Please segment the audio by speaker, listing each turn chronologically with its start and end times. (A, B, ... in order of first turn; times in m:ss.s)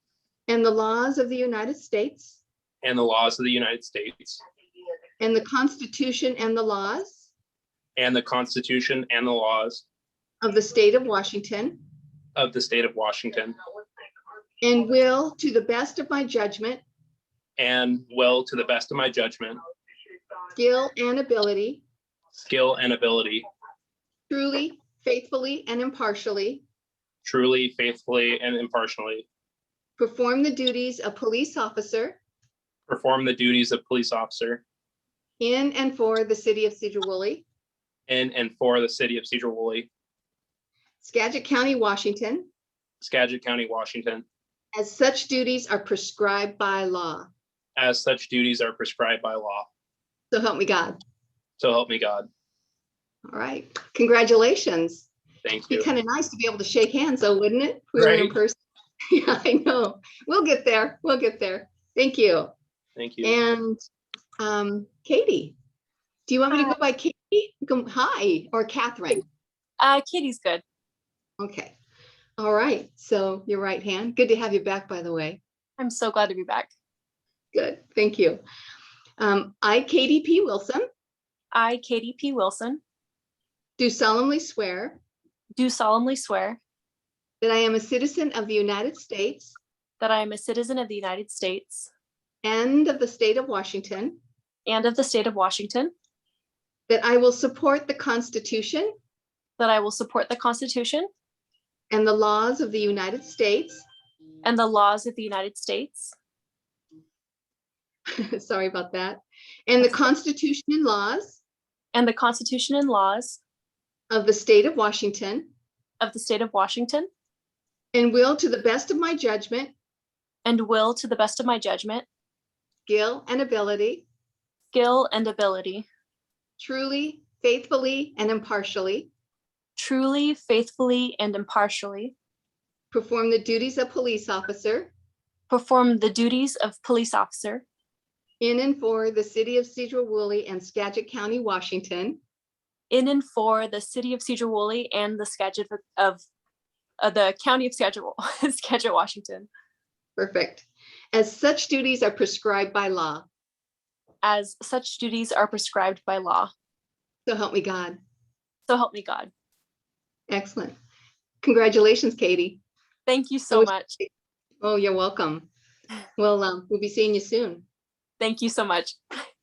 0:00.5-0:02.4 A
0:02.8-0:04.4 B
0:05.2-0:07.3 A
0:08.0-0:09.8 B
0:10.4-0:11.8 A
0:12.4-0:13.5 B
0:14.6-0:16.8 A
0:17.6-0:19.6 B
0:20.5-0:21.8 A
0:22.3-0:23.4 B
0:24.3-0:26.6 A
0:27.2-0:29.2 B
0:30.0-0:32.2 A
0:32.9-0:34.6 B
0:35.4-0:37.4 A
0:38.1-0:39.9 B
0:41.0-0:42.5 A
0:43.0-0:44.2 B
0:44.7-0:47.3 A
0:47.8-0:49.7 B
0:50.3-0:51.0 A
0:51.6-0:52.3 B
0:53.3-0:55.1 A
0:55.4-0:55.9 B
0:55.7-0:58.6 A
0:58.0-0:58.3 B
0:59.1-1:02.5 A
1:03.0-1:03.4 B
1:03.2-1:03.8 A
1:04.4-1:05.6 A
1:06.3-1:09.2 A
1:09.8-1:10.6 C
1:11.4-1:11.7 A
1:12.4-1:15.4 A
1:15.8-1:16.7 C
1:17.5-1:18.4 A
1:19.2-1:20.8 A
1:21.5-1:22.8 C
1:23.8-1:25.0 A
1:25.5-1:26.6 C
1:27.4-1:29.6 A
1:30.0-1:31.9 C
1:32.4-1:34.2 A
1:34.6-1:35.9 C
1:36.9-1:38.9 A
1:39.6-1:41.1 C
1:41.9-1:43.8 A
1:44.4-1:46.1 C
1:48.1-1:51.4 A
1:51.9-1:53.4 C
1:54.1-1:55.5 A
1:56.0-1:57.1 C
1:57.9-1:59.7 A
2:00.4-2:02.0 C
2:02.8-2:04.0 A
2:04.7-2:05.9 C
2:06.6-2:09.1 A
2:09.8-2:12.1 C
2:12.9-2:14.9 A
2:15.5-2:17.6 C
2:18.4-2:22.2 A
2:22.9-2:26.2 C
2:27.0-2:29.5 C
2:30.2-2:33.2 A
2:34.2-2:36.5 C
2:37.2-2:38.0 A
2:38.7-2:39.3 C
2:40.3-2:40.7 A
2:41.4-2:42.6 A
2:43.0-2:44.0 C
2:43.5-2:44.1 A
2:44.6-2:45.5 A
2:46.2-2:47.6 A
2:48.2-2:49.0 C